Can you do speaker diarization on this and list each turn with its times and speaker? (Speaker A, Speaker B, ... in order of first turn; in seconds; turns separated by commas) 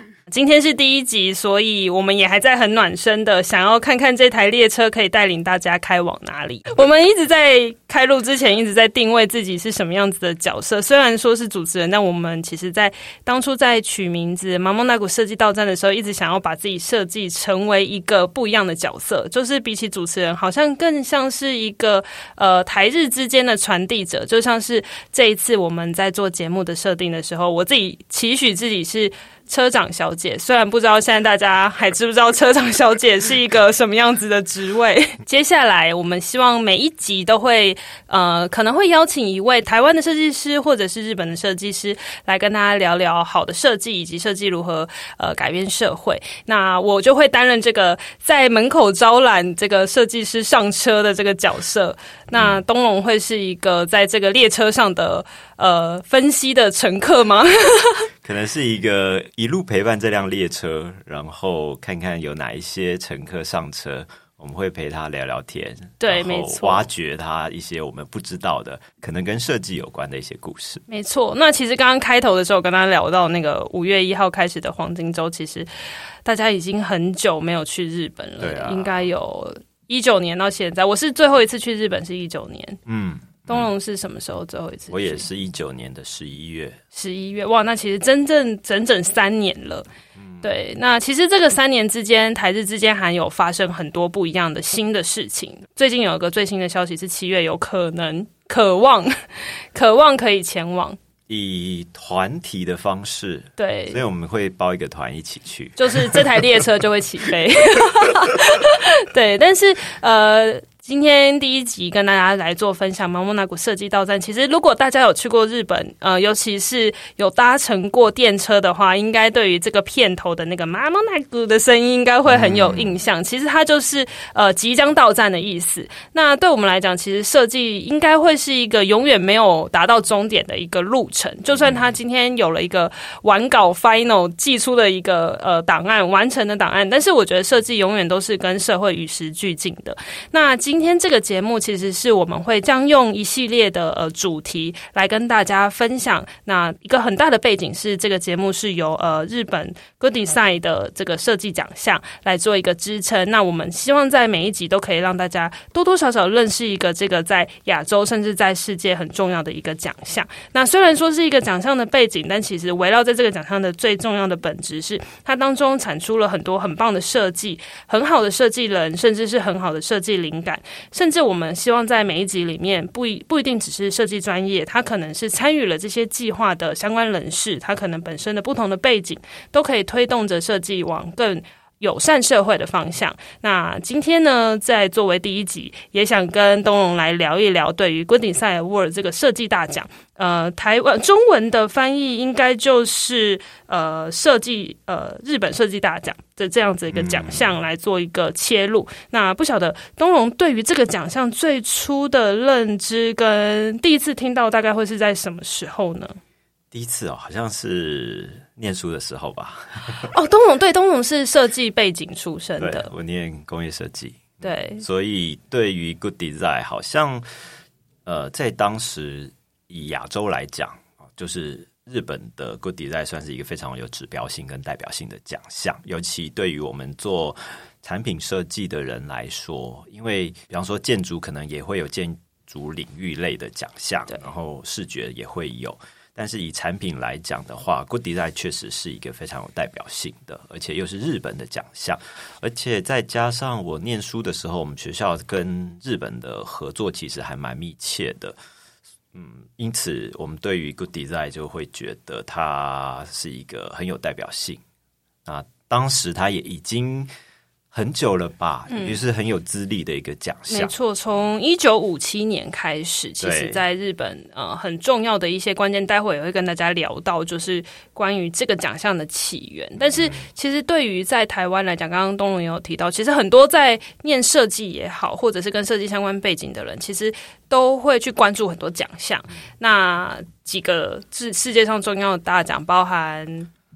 Speaker A: 0.3-58.1, Speaker B: 52.3-52.6, Speaker B: 58.2-70.8, Speaker A: 66.0-66.9, Speaker A: 70.9-75.7, Speaker A: 76.2-82.8, Speaker B: 78.4-79.0, Speaker B: 82.9-83.7, Speaker A: 83.5-85.2, Speaker B: 84.9-86.8, Speaker A: 86.9-89.9, Speaker B: 90.2-90.4, Speaker A: 90.4-101.0, Speaker B: 101.3-106.2, Speaker A: 103.6-104.0, Speaker A: 105.8-206.2, Speaker B: 122.3-122.9, Speaker B: 131.6-131.8, Speaker B: 196.9-197.5, Speaker B: 206.7-210.1, Speaker A: 210.0-212.9, Speaker B: 212.6-217.2, Speaker A: 214.4-214.8, Speaker B: 218.1-248.4, Speaker B: 249.1-254.6, Speaker B: 255.2-257.1, Speaker B: 257.7-260.7, Speaker A: 258.7-258.9, Speaker A: 260.5-283.5, Speaker B: 263.2-263.6, Speaker B: 269.9-270.3